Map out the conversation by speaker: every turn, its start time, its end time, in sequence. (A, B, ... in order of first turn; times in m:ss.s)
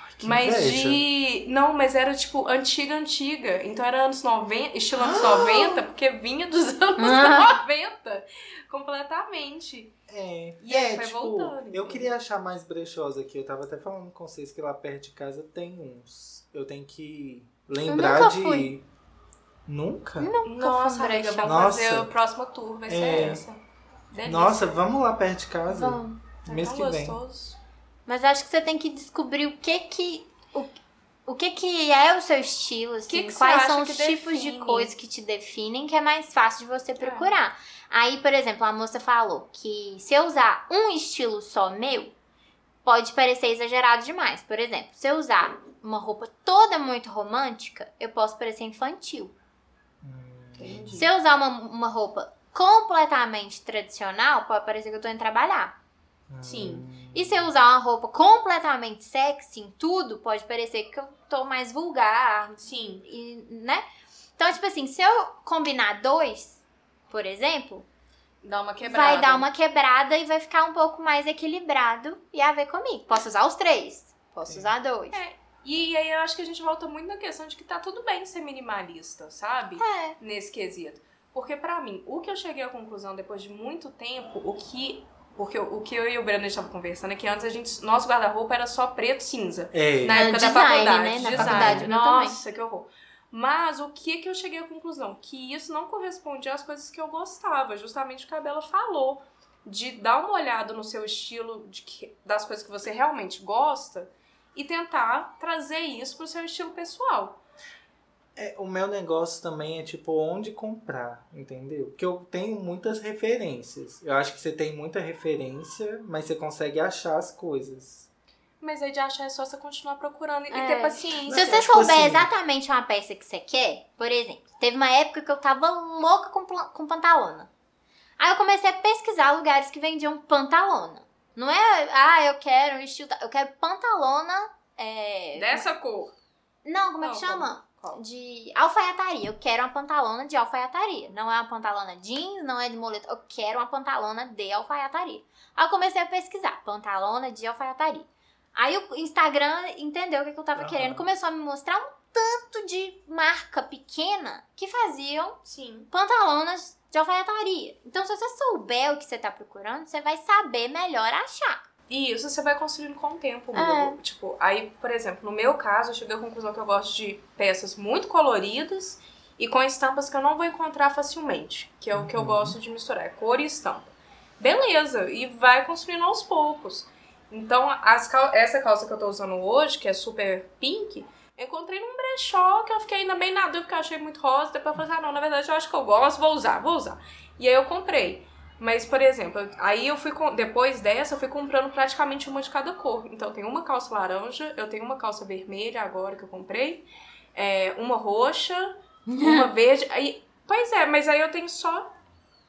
0:00.2-0:01.0 A
0:00.2-0:10.0 B
0:05.0-0:05.8 A
0:07.0-0:07.6 C
0:10.1-0:18.8 A
0:10.6-0:12.1 B
0:17.9-0:18.7 C
0:19.7-0:20.3 A
0:20.2-0:21.6 C
0:20.4-0:23.6 B
0:21.4-0:22.1 A
0:22.9-0:23.4 A
0:24.1-0:24.8 B
0:24.2-0:27.2 A
0:25.7-0:26.2 C
0:26.5-0:27.6 B
0:28.1-0:42.1 C
0:33.1-0:34.9 B
0:37.0-0:37.3 B
0:42.8-0:49.3 C
0:50.0-0:51.1 A
0:50.6-0:51.1 B
0:50.9-0:55.8 C
0:56.3-0:57.5 A
0:56.4-0:56.8 B
0:57.1-1:03.8 C
1:02.6-1:03.1 B
1:04.4-1:07.9 C
1:08.4-1:09.5 B
1:08.8-1:15.2 C
1:14.5-1:14.7 A
1:15.1-1:47.4 B
1:19.8-1:20.2 C
1:29.7-1:30.2 A
1:30.1-1:32.4 C
1:31.3-1:31.9 A
1:48.4-1:58.1 A
1:58.6-2:01.7 B
2:00.5-2:07.5 C
2:01.3-2:02.3 A
2:08.2-2:15.7 C
2:15.4-2:16.1 B
2:16.6-2:35.4 C
2:17.0-2:18.0 B
2:30.6-2:31.1 A
2:35.4-2:35.9 B
2:35.9-2:41.7 C
2:41.9-3:21.9 B
2:43.5-2:44.0 C
2:51.9-2:52.6 A
3:19.1-3:19.5 C